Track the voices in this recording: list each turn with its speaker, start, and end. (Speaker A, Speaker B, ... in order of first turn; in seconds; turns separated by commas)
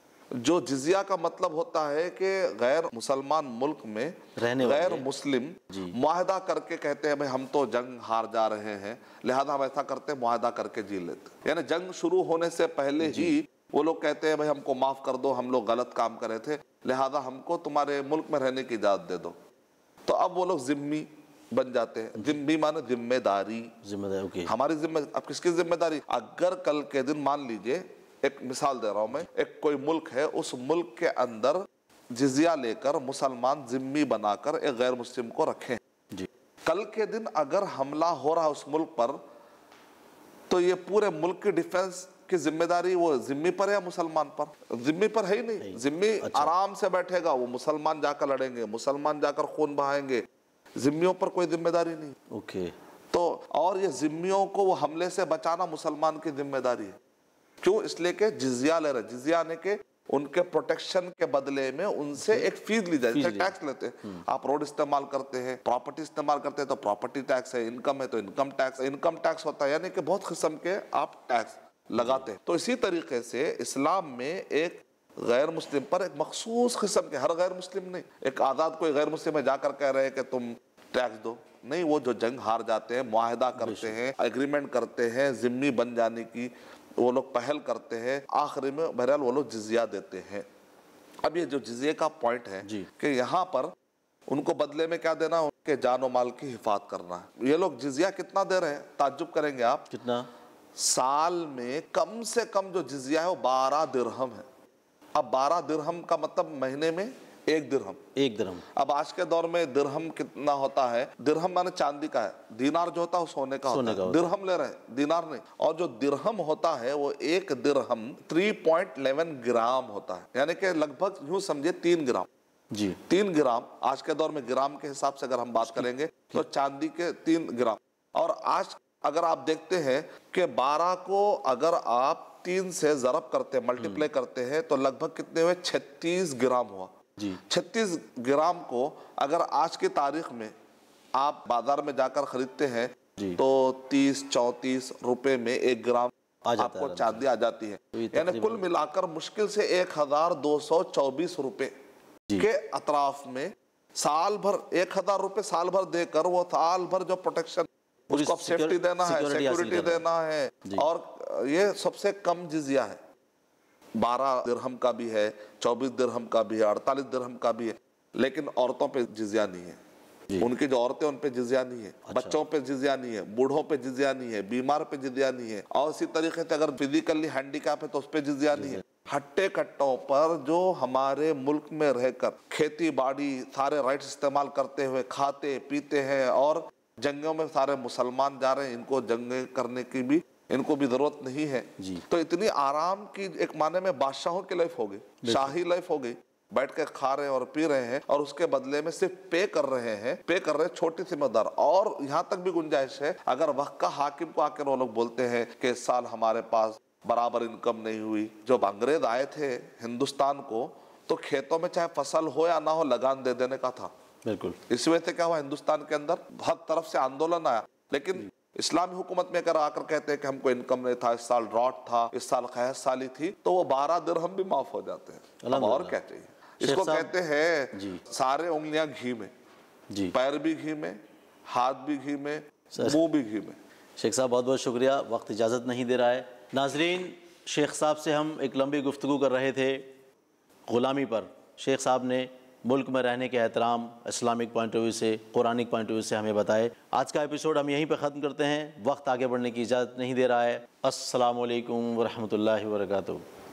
Speaker A: 0.3-19.4, Speaker B: 4.4-5.1, Speaker B: 5.7-6.0, Speaker B: 13.0-13.4, Speaker A: 20.0-23.7, Speaker B: 23.8-24.5, Speaker A: 24.5-35.8, Speaker A: 36.6-39.2, Speaker A: 40.5-50.2, Speaker B: 45.6-46.5, Speaker A: 50.8-52.2, Speaker B: 52.3-52.8, Speaker A: 53.1-57.0, Speaker A: 57.6-90.5, Speaker B: 62.2-62.5, Speaker B: 63.1-63.5, Speaker B: 72.0-72.3, Speaker B: 83.6-84.0, Speaker A: 91.2-93.7, Speaker B: 92.6-92.9, Speaker A: 94.3-99.9, Speaker B: 99.9-100.3, Speaker A: 100.8-104.5, Speaker A: 105.1-108.0, Speaker B: 108.2-108.7, Speaker A: 108.7-122.3, Speaker B: 113.7-114.3, Speaker B: 122.7-123.0, Speaker A: 123.1-140.5, Speaker B: 125.6-126.4, Speaker B: 133.8-134.1, Speaker A: 141.2-151.7, Speaker B: 146.5-147.3, Speaker B: 147.9-148.6, Speaker A: 152.4-163.0, Speaker B: 158.1-160.1, Speaker A: 164.0-169.8, Speaker A: 170.4-213.9, Speaker B: 172.1-172.4, Speaker B: 178.5-178.8, Speaker B: 195.2-195.6, Speaker B: 214.3-214.6, Speaker A: 214.7-229.3, Speaker B: 225.4-226.0, Speaker B: 226.6-227.1, Speaker B: 227.7-228.0, Speaker A: 230.1-233.6, Speaker B: 232.7-233.0, Speaker B: 234.0-240.0, Speaker B: 240.7-253.2